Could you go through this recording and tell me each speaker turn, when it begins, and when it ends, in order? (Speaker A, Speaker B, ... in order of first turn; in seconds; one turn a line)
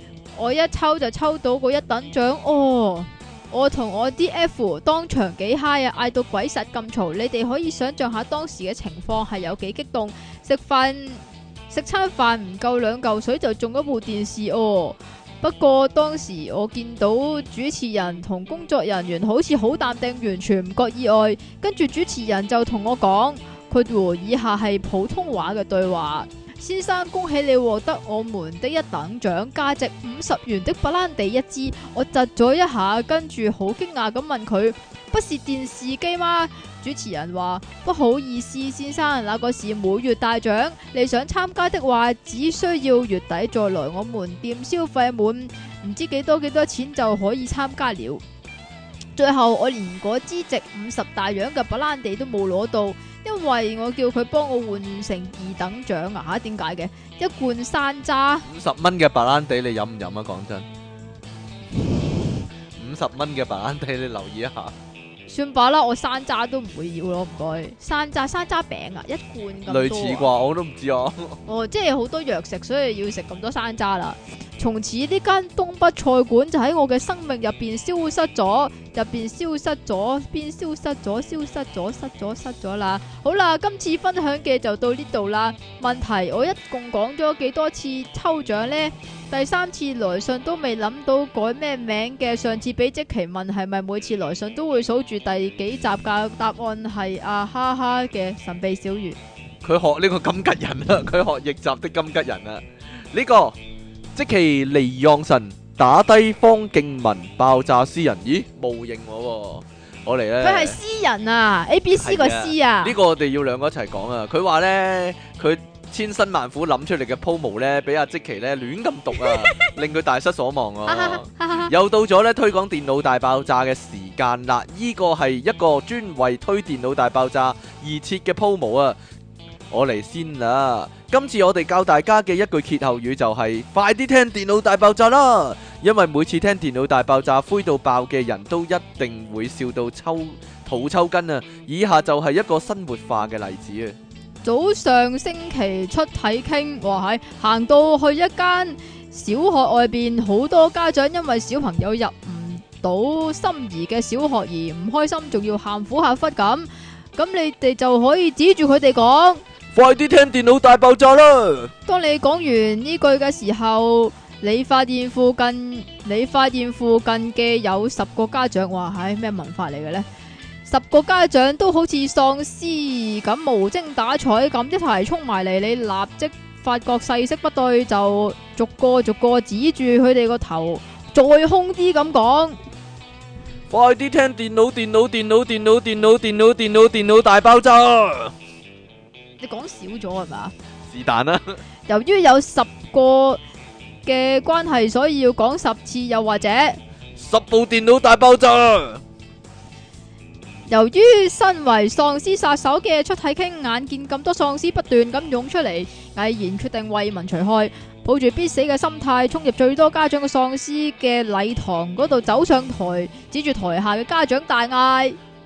Speaker A: 0.3-48.2
Speaker A: 49.2-58.5
Speaker B: 58.5-60.7
Speaker B: 62.8-64.7
Speaker A: 65.3-70.3
Speaker B: 69.7-71.4
Speaker A: 71.5-99.2
Speaker B: 99.6-103.6
Speaker B: 104.2-110.8
Speaker A: 110.4-113.0
Speaker B: 112.0-129.0
Speaker A: 119.2-119.7
Speaker A: 120.9-121.7
Speaker B: 129.7-144.0
Speaker A: 144.4-159.4
Speaker B: 159.7-161.7
Speaker A: 161.9-170.1
Speaker A: 170.7-182.6
Speaker B: 183.7-188.3
Speaker A: 189.4-190.5
Speaker B: 190.9-191.6
Speaker A: 191.9-193.4
Speaker A: 194.1-196.8
Speaker B: 197.2-199.0
Speaker A: 200.7-215.2